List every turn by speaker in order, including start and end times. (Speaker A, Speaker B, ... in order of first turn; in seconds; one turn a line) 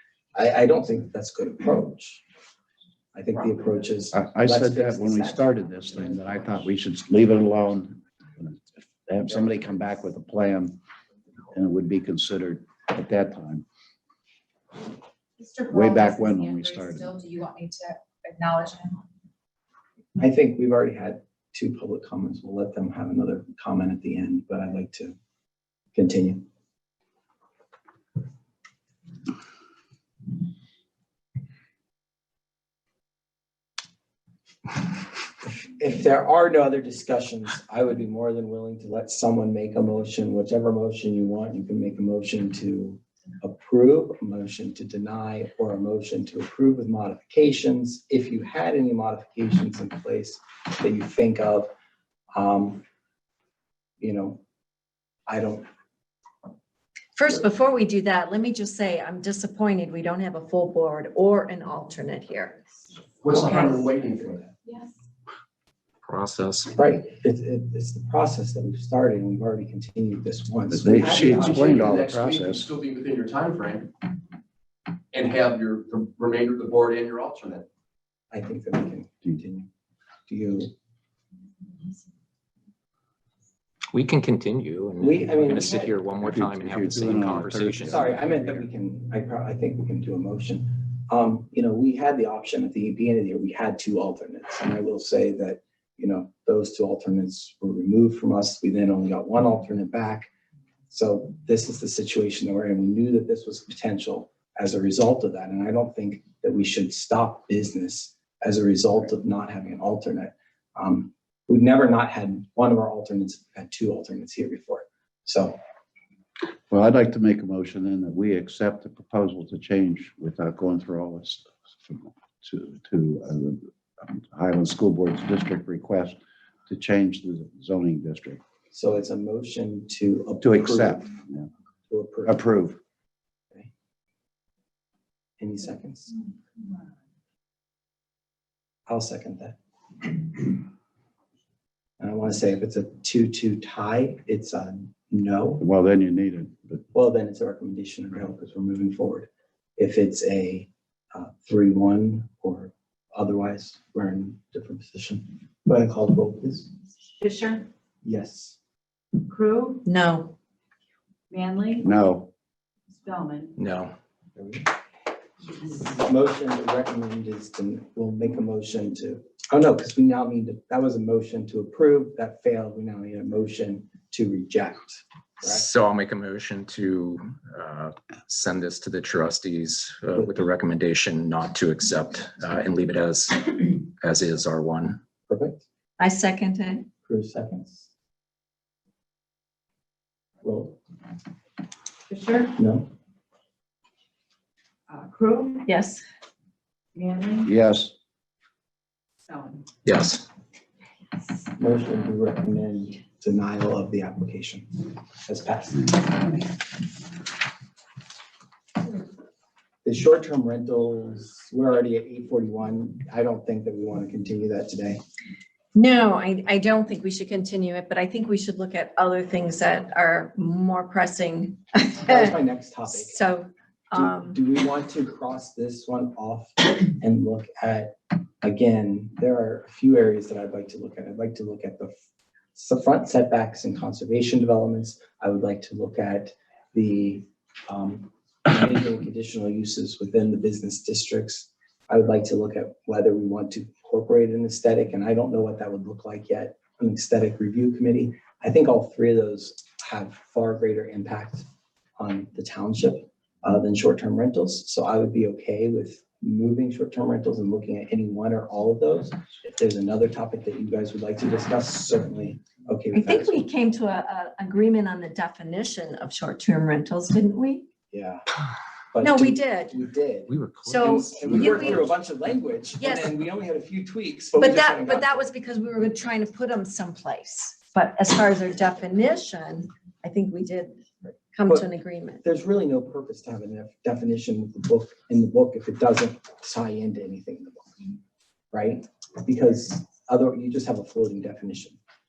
Speaker A: 0.3-2.2
Speaker A: 3.1-6.5
Speaker B: 4.1-10.8
Speaker B: 11.5-13.7
Speaker C: 15.6-18.9
Speaker B: 15.7-17.1
Speaker A: 20.2-25.2
Speaker A: 25.9-26.5
Speaker A: 35.5-51.7
Speaker A: 52.4-52.8
Speaker A: 54.0-54.4
Speaker A: 55.3-55.7
Speaker D: 57.2-62.6
Speaker E: 63.2-64.5
Speaker D: 63.3-63.8
Speaker F: 66.1-66.7
Speaker A: 66.7-72.0
Speaker B: 70.7-72.7
Speaker E: 71.0-73.9
Speaker E: 75.1-77.7
Speaker A: 78.3-79.7
Speaker A: 80.3-80.7
Speaker F: 83.9-88.0
Speaker A: 85.0-86.0
Speaker B: 86.2-88.7
Speaker A: 87.8-100.3
Speaker A: 100.9-115.6
Speaker B: 116.7-128.4
Speaker A: 128.7-131.1
Speaker B: 130.4-131.5
Speaker A: 131.9-132.4
Speaker B: 132.3-132.8
Speaker A: 135.4-136.2
Speaker A: 138.9-139.6
Speaker A: 142.0-145.6
Speaker B: 145.6-146.8
Speaker A: 146.9-156.7
Speaker G: 157.2-157.7
Speaker A: 158.0-158.6
Speaker G: 159.3-159.8
Speaker D: 159.8-160.3
Speaker G: 161.3-161.9
Speaker B: 161.8-162.3
Speaker G: 162.9-163.6
Speaker F: 163.6-163.9
Speaker A: 164.4-164.7
Speaker A: 165.8-175.7
Speaker F: 175.4-185.0
Speaker A: 185.3-185.6
Speaker D: 186.0-186.9
Speaker A: 187.1-187.9
Speaker A: 190.4-190.8
Speaker G: 192.1-192.5
Speaker A: 192.6-192.9
Speaker G: 194.9-195.7
Speaker D: 195.7-196.0
Speaker G: 196.9-197.5
Speaker B: 197.4-197.9
Speaker G: 199.3-199.6
Speaker F: 199.9-200.2
Speaker A: 201.6-206.3
Speaker A: 209.8-215.0
Speaker D: 215.8-222.4
Speaker A: 222.0-223.2
Speaker D: 222.9-224.4
Speaker A: 223.9-231.9
Speaker A: 232.6-251.5
Speaker A: 252.0-263.5
Speaker D: 262.9-267.7
Speaker A: 267.9-268.2
Speaker A: 268.9-275.2
Speaker D: 269.0-269.8
Speaker F: 270.3-271.9
Speaker D: 270.6-271.9
Speaker D: 272.8-273.2
Speaker D: 274.4-280.8
Speaker D: 281.3-282.2
Speaker A: 282.2-287.8
Speaker A: 288.5-291.8